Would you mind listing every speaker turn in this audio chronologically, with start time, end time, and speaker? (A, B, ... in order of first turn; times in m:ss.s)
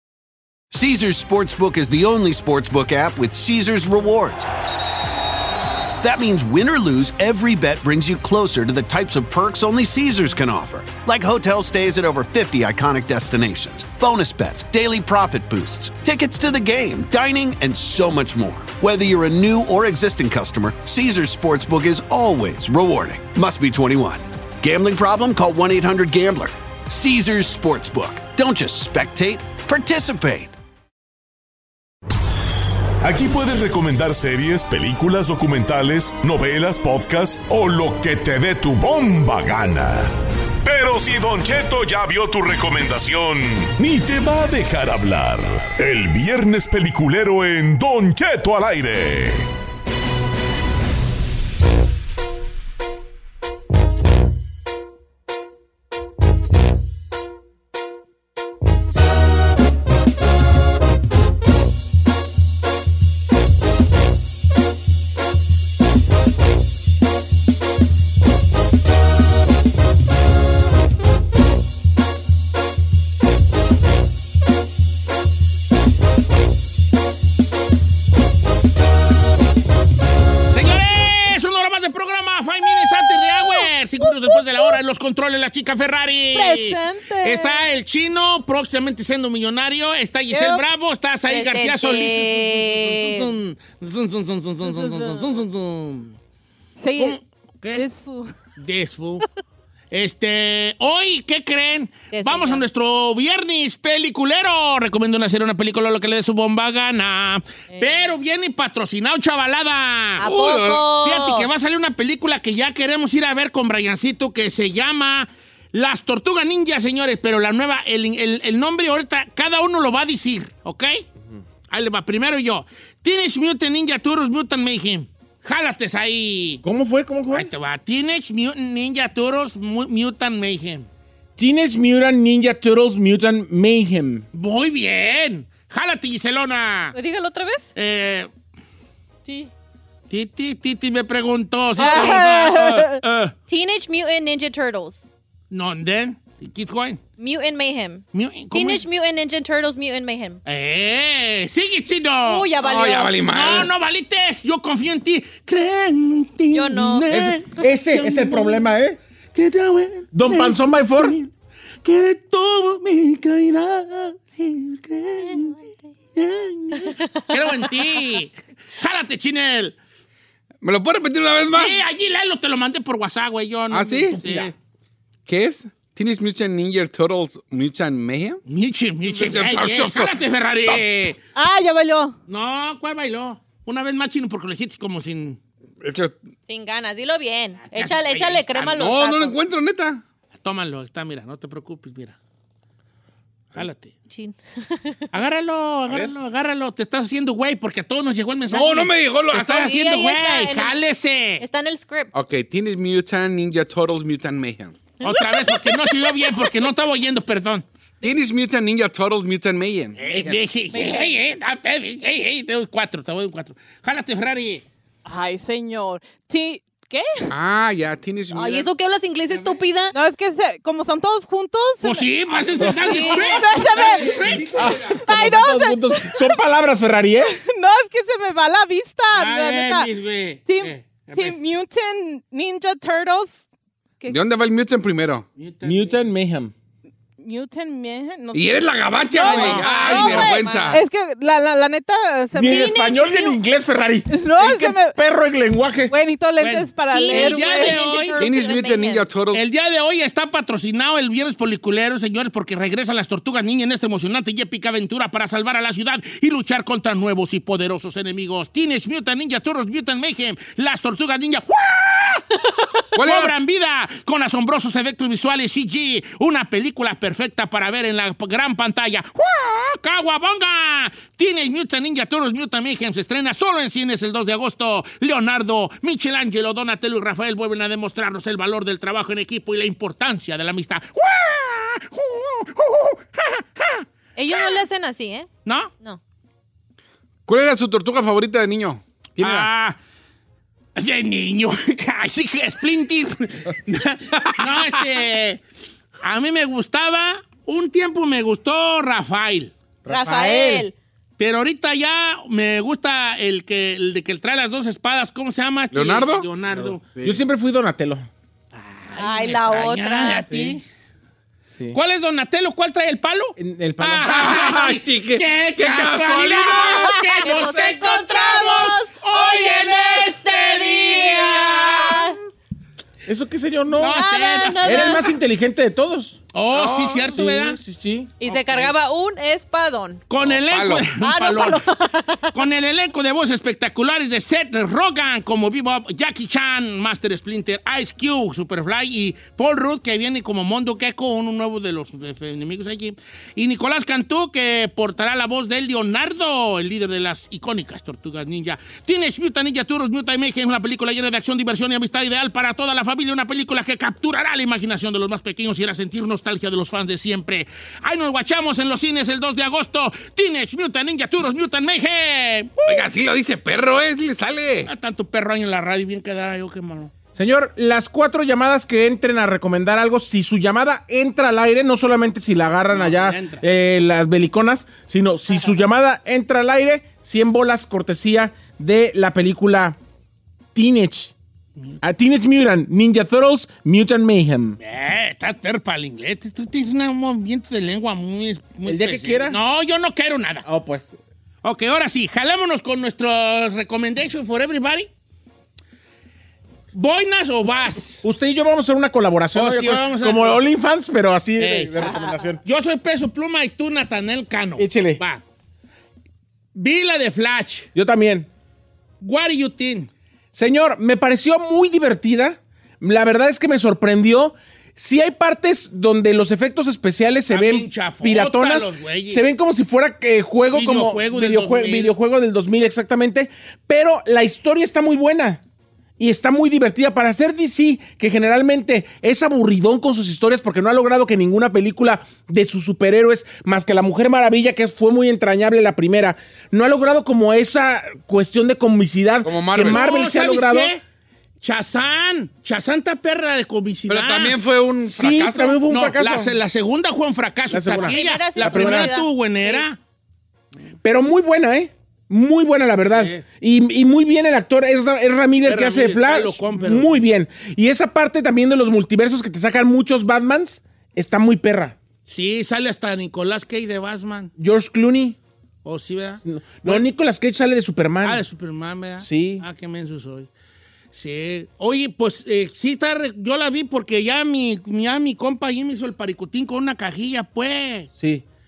0:00.7-0:04.5 A
0:06.0-0:30.5 A
0:33.0-0:40.1 B
0:40.6-0:49.5 B
1:20.5-1:36.2 C
1:26.3-1:27.6 D
1:30.3-1:30.6 D
1:31.3-1:33.3 E
1:34.6-1:35.4 D
1:36.8-1:37.2 D
1:37.0-1:37.9 C
1:37.7-1:38.3 D
1:38.5-1:39.2 C
1:39.9-2:01.0 C
1:42.1-1:42.6 E
1:47.7-1:48.1 E
1:50.2-1:51.5 E
1:50.2-1:50.8 F
2:01.7-2:06.6 C
2:06.6-2:07.5 G
2:07.3-2:10.9 C
2:11.4-2:14.2 G
2:14.3-2:16.9 C
2:16.9-2:17.7 E
2:17.8-2:18.3 C
2:20.1-2:23.3 C
2:21.8-2:23.0 D
2:21.8-2:22.2 E
2:23.5-2:25.1 E
2:25.5-2:27.0 C
2:27.2-2:30.4 E
2:28.1-2:28.8 C
2:30.4-2:32.5 C
2:32.2-2:33.2 E
2:32.6-2:33.7 F
2:33.2-2:38.7 C
2:36.5-2:37.0 E
2:37.1-2:39.0 G
2:39.3-2:41.3 C
2:40.1-2:41.2 G
2:41.8-2:45.6 C
2:46.1-2:49.7 C
2:46.8-2:47.3 E
2:50.6-2:51.8 F
2:51.5-2:54.5 C
2:53.7-2:54.5 F
2:55.2-2:58.4 F
2:58.5-3:01.2 C
2:59.1-3:00.8 F
3:01.3-3:02.2 D
3:02.3-3:05.4 C
3:05.8-3:06.2 F
3:06.5-3:09.4 E
3:07.7-3:08.9 C
3:08.8-3:10.0 F
3:10.3-3:12.2 C
3:13.5-3:13.9 C
3:14.1-3:15.0 E
3:15.1-3:21.4 C
3:15.9-3:16.1 F
3:18.5-3:19.7 F
3:19.4-3:20.8 E
3:21.4-3:22.1 E
3:22.1-3:24.9 F
3:25.0-3:27.6 C
3:25.0-3:26.4 E
3:28.0-3:30.4 F
3:30.0-3:34.6 C
3:35.0-3:37.3 D
3:37.3-3:38.7 F
3:38.3-3:39.9 E
3:39.9-3:42.1 D
3:41.8-3:44.7 C
3:42.7-3:44.4 D
3:43.6-3:45.2 F
3:44.5-3:47.3 G
3:45.0-3:46.4 D
3:47.2-3:49.9 D
3:49.1-3:51.4 C
3:50.4-3:53.4 D
3:54.1-3:55.3 F
3:55.4-3:56.0 C
3:55.6-3:56.5 G
3:57.2-3:58.5 D
3:58.3-4:00.8 F
3:59.1-4:02.8 D
3:59.2-4:00.8 C
4:02.4-4:06.0 G
4:02.4-4:03.4 E
4:04.1-4:05.0 D
4:05.8-4:07.8 D
4:06.4-4:08.2 C
4:06.9-4:09.0 E
4:08.2-4:09.4 F
4:09.3-4:22.2 C
4:22.9-4:23.3 F
4:22.9-4:43.8 C
4:44.2-4:45.3 E
4:45.4-4:45.7 C
4:47.3-4:49.5 F
4:49.2-4:49.8 C
4:50.8-4:55.4 C
4:54.1-4:54.6 F
4:56.0-4:59.5 C
4:59.9-5:00.7 E
4:59.9-5:00.6 G
5:01.2-5:06.8 C
5:05.7-5:07.2 F
5:07.0-5:08.0 G
5:08.5-5:10.6 C
5:09.0-5:10.3 E
5:10.3-5:10.6 F
5:11.5-5:11.8 G
5:11.7-5:22.0 C
5:13.4-5:14.3 G
5:14.0-5:17.1 F
5:17.2-5:22.2 E
5:23.0-5:24.0 G
5:23.8-5:25.1 C
5:23.9-5:25.1 E
5:24.6-5:26.2 G
5:26.3-5:27.6 C
5:26.5-5:27.1 F
5:27.1-5:28.1 G
5:28.2-5:30.0 E
5:28.2-5:28.7 C
5:30.1-5:31.7 C
5:30.2-5:30.9 F
5:31.0-5:32.4 E
5:32.3-6:02.5 C
6:02.6-6:04.7 F
6:04.7-6:06.9 C
6:07.1-6:19.8 G
6:12.7-6:13.4 C
6:20.5-6:21.1 G
6:21.8-6:24.6 G
6:24.6-6:30.4 C
6:28.6-6:29.4 G
6:30.4-6:31.0 G
6:31.4-6:34.9 C
6:36.7-6:38.0 C
6:38.0-6:42.4 G
6:39.3-6:40.4 C
6:41.4-6:45.2 C
6:44.6-6:45.0 G
6:46.5-6:47.7 C
6:47.7-6:48.3 G
6:49.0-6:49.9 C
6:50.3-7:05.4 G
6:57.3-6:59.2 C
7:00.5-7:01.9 C
7:06.0-7:20.7 G
7:19.2-7:19.8 F
7:19.6-7:20.8 C
7:21.4-7:24.4 C
7:23.9-7:25.7 F
7:24.8-7:26.4 G
7:25.7-7:29.8 C
7:27.5-7:29.0 G
7:27.8-7:29.6 E
7:30.8-7:41.8 G
7:32.9-7:33.2 C
7:35.4-7:37.0 C
7:42.1-7:44.3 C
7:44.4-7:45.2 G
7:45.6-7:46.8 C
7:46.2-7:48.2 G
7:48.0-7:50.3 C
7:49.0-7:49.4 G
7:50.9-7:57.9 C
7:58.0-7:58.2 G